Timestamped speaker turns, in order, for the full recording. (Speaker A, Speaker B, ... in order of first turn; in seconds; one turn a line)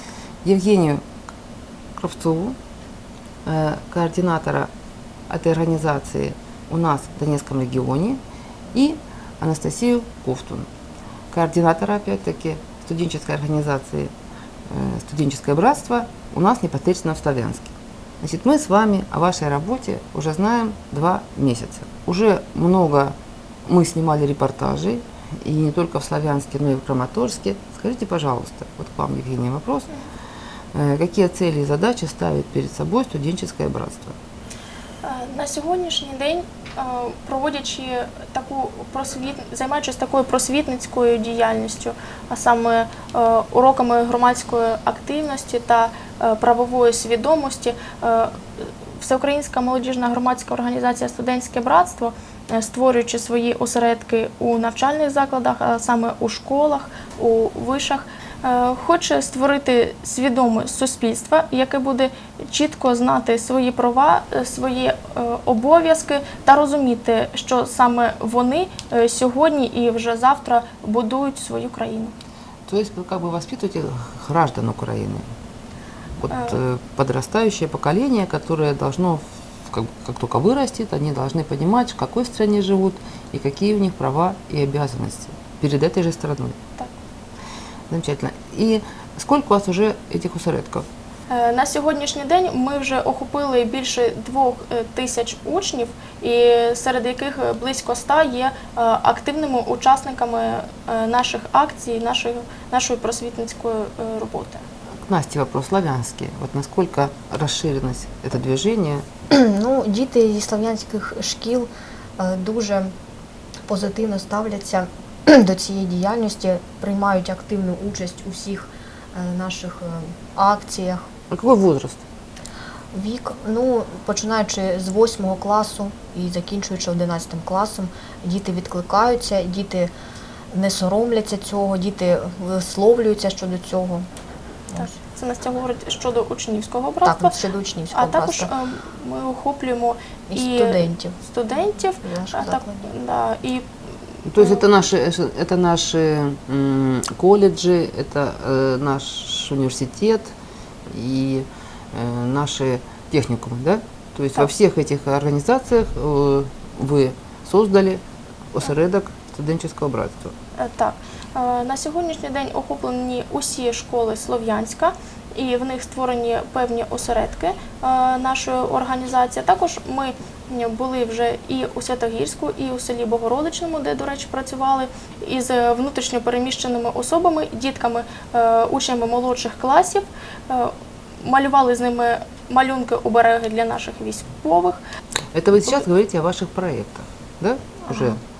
Speaker A: 0.4-1.0
Speaker A: 2.0-2.6
Speaker A: 3.5-4.7
Speaker A: 5.3-8.2
Speaker A: 8.7-10.7
Speaker A: 11.3-14.1
Speaker A: 14.7-29.9
Speaker A: 30.7-34.1
Speaker B: 35.0-72.1
Speaker A: 72.7-75.2
Speaker A: 76.2-86.5
Speaker B: 76.3-76.6
Speaker A: 87.9-90.8
Speaker B: 91.3-104.6
Speaker A: 105.1-109.0
Speaker C: 109.3-112.9
Speaker C: 113.7-121.0
Speaker A: 121.3-122.0
Speaker C: 122.9-129.9
Speaker C: 130.5-134.1
Speaker B: 134.7-137.3
Speaker C: 137.0-138.5
Speaker B: 137.9-143.7
Speaker C: 140.3-141.2
Speaker C: 141.9-142.9
Speaker A: 144.2-150.3
Speaker B: 144.3-144.6
Speaker A: 150.9-158.0
Speaker A: 158.5-160.3
Speaker B: 160.6-184.8
Speaker A: 185.3-188.2